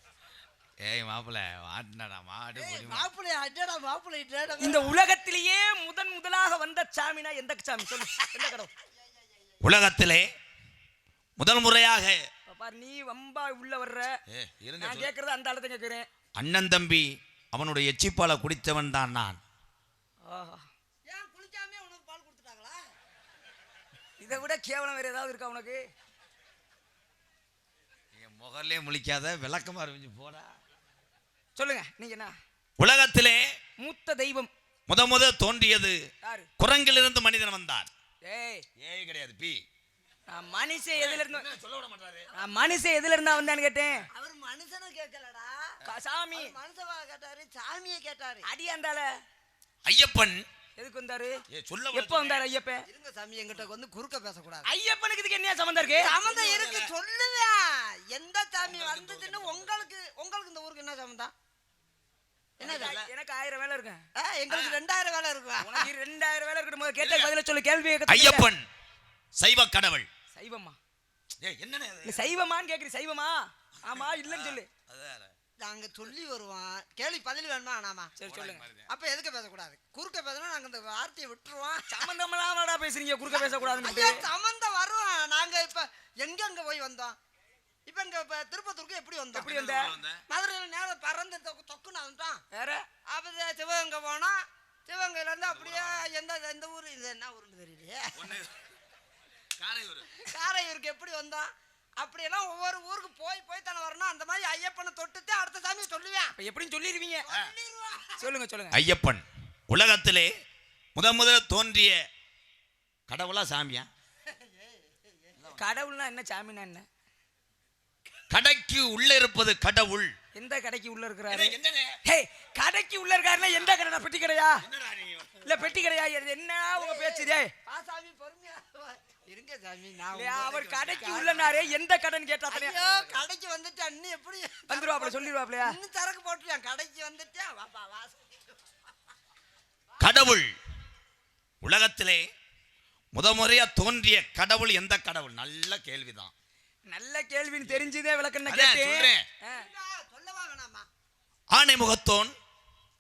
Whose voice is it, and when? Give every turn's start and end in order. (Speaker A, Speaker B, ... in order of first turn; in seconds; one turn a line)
Speaker A: 0.8-3.1
Speaker B: 2.6-5.0
Speaker C: 4.6-8.7
Speaker B: 8.9-9.6
Speaker A: 9.6-10.3
Speaker A: 11.4-12.3
Speaker C: 12.5-14.1
Speaker A: 14.3-15.1
Speaker C: 14.8-16.1
Speaker A: 16.4-19.4
Speaker C: 20.3-20.7
Speaker B: 21.1-22.9
Speaker C: 24.2-25.8
Speaker A: 28.1-30.6
Speaker C: 31.6-32.3
Speaker A: 32.8-33.4
Speaker C: 33.8-34.5
Speaker A: 34.9-37.9
Speaker C: 36.2-36.5
Speaker C: 38.2-38.7
Speaker A: 38.8-39.6
Speaker C: 40.3-41.5
Speaker A: 41.0-42.3
Speaker C: 42.3-44.1
Speaker B: 44.1-45.7
Speaker C: 45.9-46.5
Speaker B: 46.3-48.5
Speaker C: 48.4-49.1
Speaker A: 49.9-50.4
Speaker C: 50.8-51.4
Speaker A: 51.5-52.5
Speaker C: 51.9-52.9
Speaker B: 52.9-54.7
Speaker C: 54.6-56.2
Speaker B: 55.9-61.3
Speaker A: 56.2-56.9
Speaker A: 58.6-59.9
Speaker B: 62.6-63.0
Speaker A: 62.6-63.1
Speaker C: 62.6-64.0
Speaker B: 64.2-65.9
Speaker A: 64.5-64.8
Speaker C: 65.6-68.5
Speaker A: 67.0-67.3
Speaker A: 68.1-68.7
Speaker A: 69.4-70.1
Speaker C: 70.3-70.8
Speaker A: 71.4-72.3
Speaker C: 72.0-74.7
Speaker A: 73.8-75.3
Speaker B: 75.6-78.1
Speaker C: 78.2-78.7
Speaker A: 78.2-78.9
Speaker B: 78.9-82.0
Speaker C: 81.9-84.2
Speaker B: 83.4-87.2
Speaker B: 87.9-89.6
Speaker C: 89.3-89.9
Speaker A: 89.4-90.2
Speaker B: 90.3-92.4
Speaker C: 92.5-92.8
Speaker B: 93.1-98.3
Speaker A: 95.5-96.1
Speaker A: 98.2-98.7
Speaker A: 99.6-100.1
Speaker B: 100.2-106.3
Speaker C: 106.4-107.3
Speaker B: 107.3-108.2
Speaker C: 108.2-108.8
Speaker A: 108.7-110.3
Speaker A: 111.0-112.0
Speaker A: 113.1-113.9
Speaker B: 114.3-115.3
Speaker A: 115.4-115.7
Speaker C: 115.6-116.9
Speaker A: 118.3-120.2
Speaker C: 120.3-124.6
Speaker A: 121.3-122.0
Speaker A: 124.6-125.6
Speaker C: 125.4-127.5
Speaker B: 126.8-131.6
Speaker C: 130.1-132.8
Speaker B: 132.5-138.7
Speaker C: 134.7-135.8
Speaker A: 140.0-140.5
Speaker A: 141.6-142.2
Speaker A: 143.1-146.3
Speaker C: 146.9-149.7
Speaker A: 148.5-149.2
Speaker B: 149.5-150.9
Speaker A: 151.5-152.3